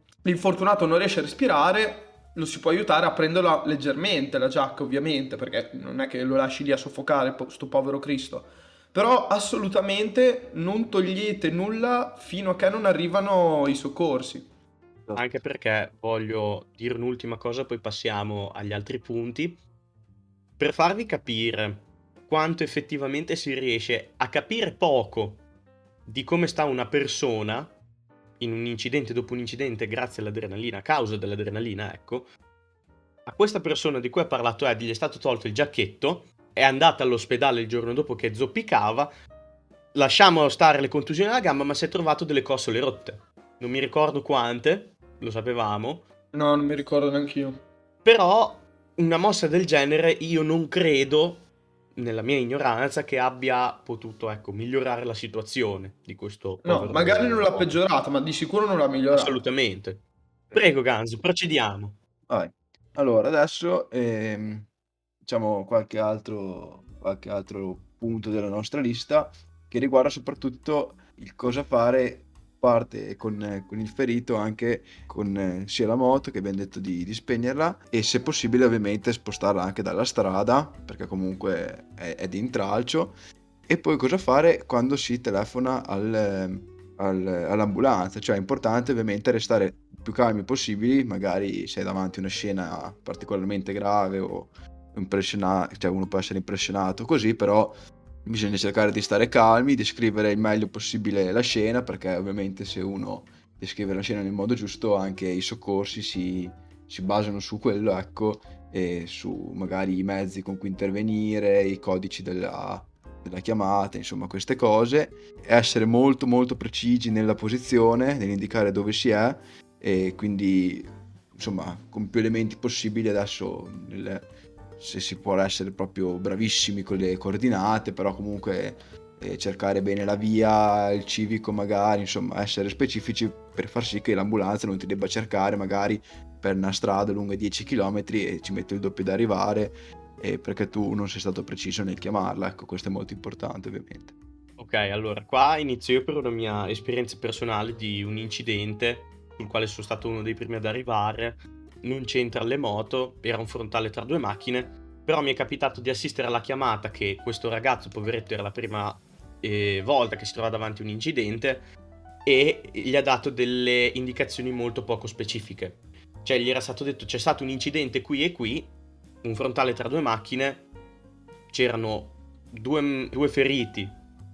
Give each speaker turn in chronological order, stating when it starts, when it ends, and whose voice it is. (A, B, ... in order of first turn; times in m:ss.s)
0:00.2-0:14.5 A
0:15.1-0:15.4 B
0:15.1-0:19.6 C
0:20.6-0:25.4 C
0:26.0-0:27.7 C
0:28.4-0:32.3 C
0:33.2-0:39.1 C
0:39.9-0:46.0 C
0:46.3-0:47.6 A
0:48.0-0:57.8 C
0:56.6-0:59.4 A
0:59.1-1:02.0 C
1:02.3-1:04.7 B
1:05.2-1:23.2 B
1:23.7-2:04.3 B
2:04.8-2:24.1 B
2:24.6-2:41.7 C
2:42.2-2:50.7 C
2:51.5-2:54.0 C